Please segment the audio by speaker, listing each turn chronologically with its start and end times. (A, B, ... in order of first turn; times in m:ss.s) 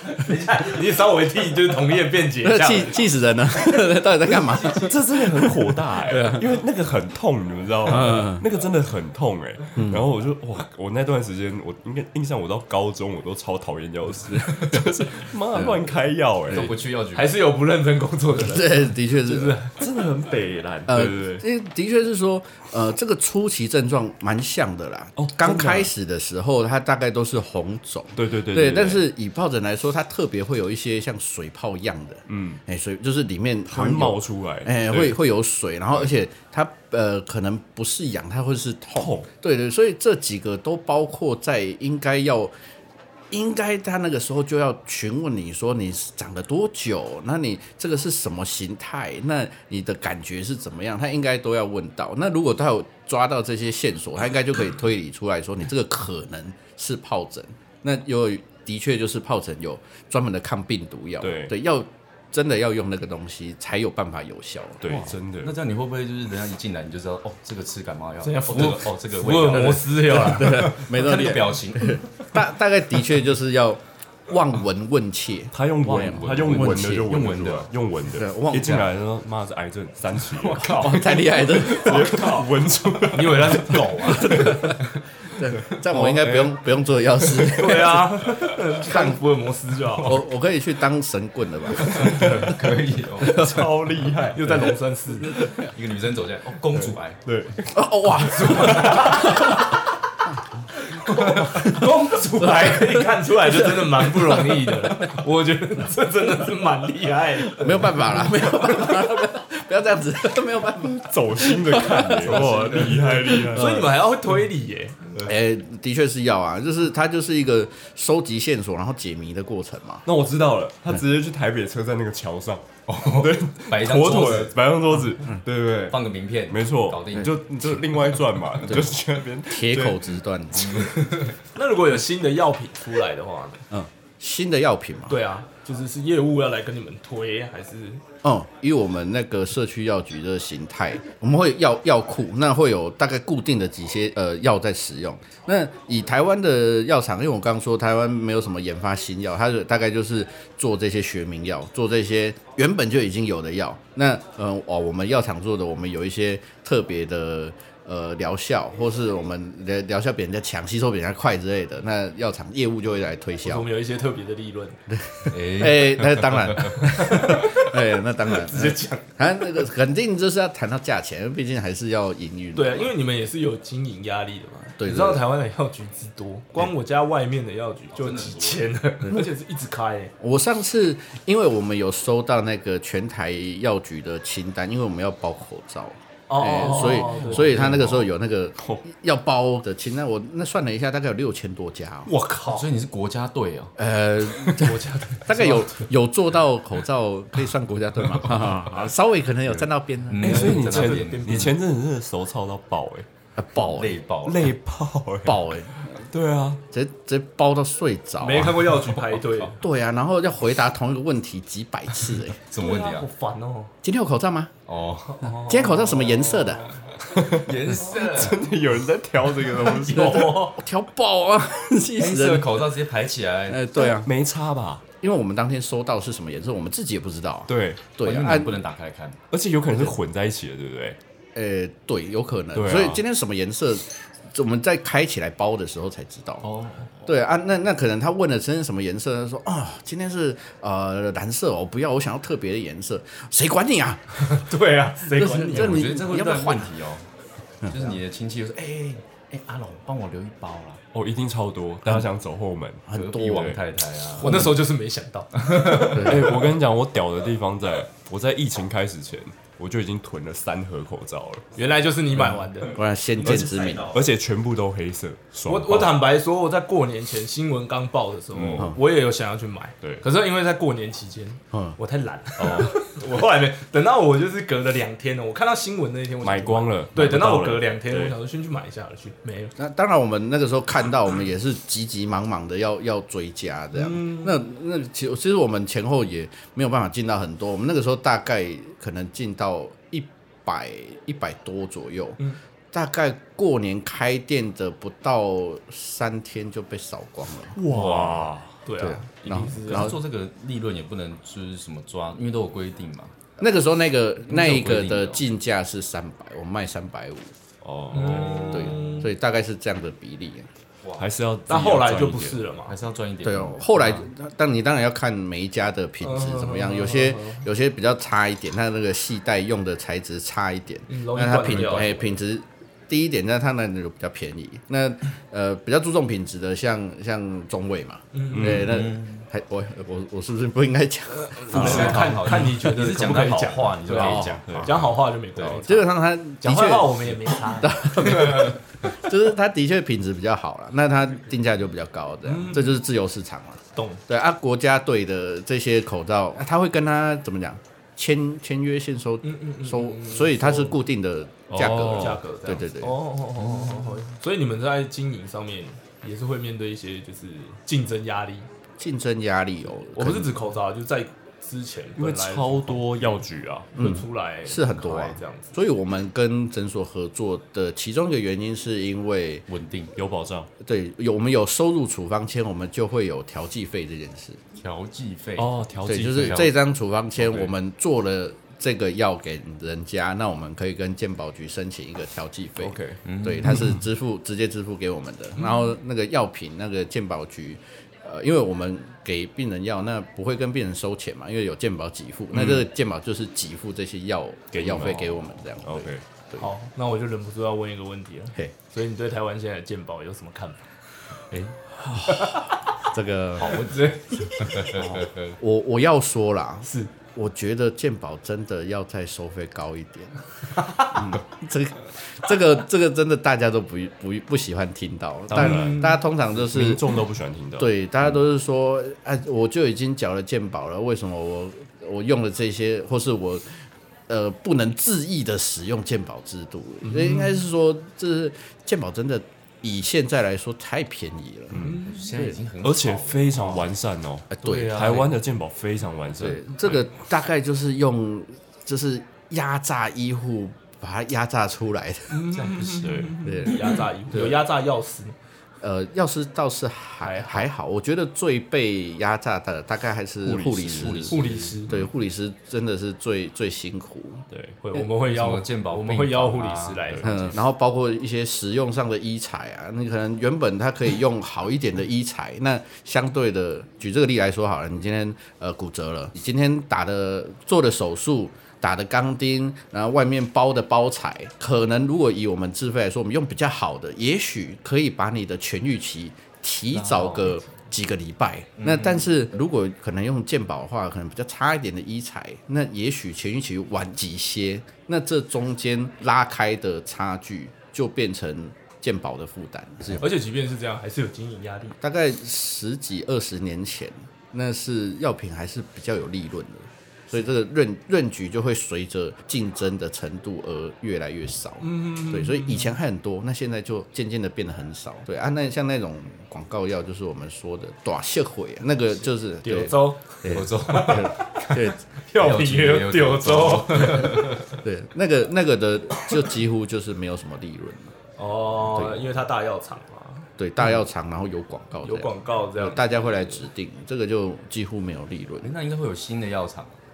0:00.1-0:03.0 A
0:02.4-0:06.4 B
0:04.8-0:16.7 C
0:07.9-0:08.4 B
0:09.8-0:10.0 B
0:14.3-0:14.9 B
0:15.5-0:15.8 B
0:16.5-0:17.5 D
0:16.5-0:19.7 A
0:18.3-0:19.6 B
0:19.8-0:21.4 C
0:20.9-0:42.5 B
0:25.2-0:25.9 C
0:28.1-0:29.0 C
0:32.3-0:32.6 C
0:33.7-0:35.2 C
0:39.0-0:39.3 C
0:43.3-1:04.9 B
1:01.2-1:01.5 C
1:04.8-1:05.5 C
1:04.8-1:12.3 D
1:08.2-1:10.7 A
1:10.1-1:17.2 B
1:15.5-1:24.6 C
1:15.8-1:17.7 D
1:18.1-1:18.9 B
1:20.4-1:22.5 A
1:20.5-1:22.3 B
1:23.1-1:24.7 A
1:24.0-1:29.2 B
1:25.8-1:26.5 C
1:27.6-1:30.2 A
1:30.0-1:32.4 B
1:31.8-1:33.4 D
1:31.9-1:32.5 C
1:33.2-1:33.7 B
1:33.2-1:34.7 C
1:34.3-1:35.5 A
1:35.3-1:37.2 D
1:36.7-1:37.7 C
1:37.7-1:39.7 B
1:38.2-1:39.8 A
1:38.4-1:39.2 C
1:40.9-1:49.1 A
1:42.5-1:43.0 B
1:43.7-1:44.8 B
1:47.6-1:53.9 B
1:50.8-1:53.9 C
1:52.4-1:53.1 D
1:52.4-1:55.2 A
1:55.2-2:00.0 B
2:00.0-2:10.1 C
2:02.9-2:04.6 D
2:05.9-2:07.4 D
2:08.7-2:11.0 B
2:10.6-2:11.3 D
2:11.5-2:13.6 A
2:13.7-2:15.2 B
2:15.1-2:18.0 A
2:18.2-2:43.7 B
2:43.4-2:44.8 A
2:44.9-2:52.9 B
2:45.3-2:46.8 D
2:46.8-2:49.6 A
2:52.6-3:00.1 A
2:54.8-2:55.2 B
2:58.0-2:58.7 D
2:59.1-2:59.3 B
3:00.2-3:12.1 B
3:06.3-3:07.9 A
3:07.1-3:07.6 D
3:12.0-3:12.7 A
3:12.5-3:13.7 D
3:13.8-3:20.5 B
3:14.4-3:15.9 A
3:20.1-3:21.5 D
3:20.2-3:23.1 C
3:20.2-3:21.5 A
3:23.4-3:24.0 B
3:23.6-3:24.5 D
3:24.2-3:26.6 C
3:25.2-3:26.0 B
3:26.7-3:28.7 B
3:28.2-3:29.6 A
3:28.5-3:29.0 C
3:29.6-3:32.4 B
3:32.5-3:33.1 D
3:32.6-3:33.7 A
3:33.8-3:34.5 B
3:34.6-3:35.3 D
3:35.1-3:36.9 A
3:35.3-3:36.8 B
3:37.1-3:40.5 C
3:37.3-3:38.4 D
3:39.7-3:40.6 A
3:39.9-3:42.7 B
3:42.0-3:43.7 D
3:43.5-3:44.1 B
3:43.8-3:44.8 C
3:45.0-3:48.6 B
3:47.5-3:47.9 C
3:48.0-3:49.2 D
3:49.3-3:51.0 C
3:51.3-3:56.4 B
3:52.5-3:53.0 C
3:56.4-3:56.9 D
3:57.0-4:04.4 B
4:04.2-4:05.9 A
4:05.1-4:06.7 B
4:05.5-4:07.1 D
4:07.7-4:10.8 D
4:10.9-4:13.6 C
4:12.9-4:13.6 B
4:12.9-4:14.5 D
4:14.2-4:16.5 A
4:15.6-4:16.0 D
4:15.6-4:21.5 C
4:21.5-4:23.9 A
4:22.7-4:23.9 B
4:23.2-4:26.0 C
4:23.3-4:23.8 D
4:25.5-4:39.5 A
4:28.3-4:28.8 C
4:32.4-4:32.9 C
4:36.2-4:38.2 C
4:39.6-4:57.6 B
4:43.7-4:44.4 A
4:57.5-4:58.6 C
4:57.7-4:58.1 A
4:58.6-5:00.0 A
4:58.8-5:00.0 B
4:59.6-5:03.1 D
5:03.4-5:07.3 B
5:04.3-5:05.2 D
5:07.6-5:08.9 C
5:07.9-5:09.1 A
5:08.5-5:10.5 B
5:10.8-5:11.1 D
5:11.0-5:12.5 C
5:11.5-5:12.8 A
5:12.6-5:14.0 D
5:13.2-5:32.2 B
5:16.0-5:17.4 A
5:20.9-5:22.2 A
5:28.1-5:28.7 A
5:28.3-5:28.8 C
5:28.4-5:29.2 D
5:31.2-5:35.9 A
5:31.5-5:34.7 D
5:34.0-5:34.7 B
5:34.4-5:34.9 C
5:35.4-5:35.6 D
5:35.4-5:53.0 B
5:36.4-5:38.5 A
5:42.2-5:42.8 A
5:43.7-5:44.0 A
5:49.2-5:50.8 A
5:51.5-5:52.2 C
5:51.6-5:58.5 A
5:58.8-6:00.3 B
5:59.9-6:03.2 A
6:02.0-6:03.7 C
6:03.7-6:05.5 A
6:03.8-6:09.4 B
6:09.5-6:09.9 D
6:10.0-6:10.5 C
6:10.6-6:14.4 B
6:14.6-6:16.5 D
6:15.4-6:16.5 C
6:15.8-6:36.5 B
6:17.2-6:17.5 C
6:22.6-6:23.0 C
6:23.0-6:23.7 D
6:32.3-6:32.7 C
6:34.5-6:36.0 C
6:36.4-6:40.6 A
6:41.3-6:43.8 B
6:42.1-6:42.5 A
6:43.4-6:45.3 D
6:44.5-6:50.2 B
6:46.6-6:46.9 A
6:50.6-6:51.1 A
6:50.8-6:56.8 B
6:55.3-6:57.7 C
6:55.3-6:56.0 A
6:57.6-7:03.4 B
7:04.1-7:12.4 B
7:11.5-7:11.9 C
7:11.6-7:12.1 A
7:11.8-7:13.7 D
7:12.6-7:16.8 C
7:14.4-7:15.0 B
7:14.4-7:15.1 D
7:16.2-7:22.4 B
7:22.1-7:25.1 A
7:22.3-7:23.1 D
7:22.6-7:23.5 C
7:23.2-7:24.4 B
7:25.6-7:34.2 B
7:27.0-7:27.5 A
7:30.2-7:31.1 C
7:30.6-7:31.6 D
7:31.1-7:31.7 A
7:34.3-7:34.6 C
7:34.6-7:37.4 A
7:34.8-7:37.2 D
7:37.0-8:10.0 B
7:56.7-7:57.4 D
7:58.6-7:59.0 D
8:10.0-8:11.8 A
8:11.8-8:31.8 B
8:21.6-8:22.7 A
8:29.4-8:34.5 A
8:30.2-8:31.2 D
8:32.2-8:34.5 D
8:33.9-8:37.9 B
8:38.2-8:40.3 A
8:38.6-8:39.2 B
8:40.4-8:45.5 B
8:41.8-8:43.4 A
8:45.4-8:46.8 D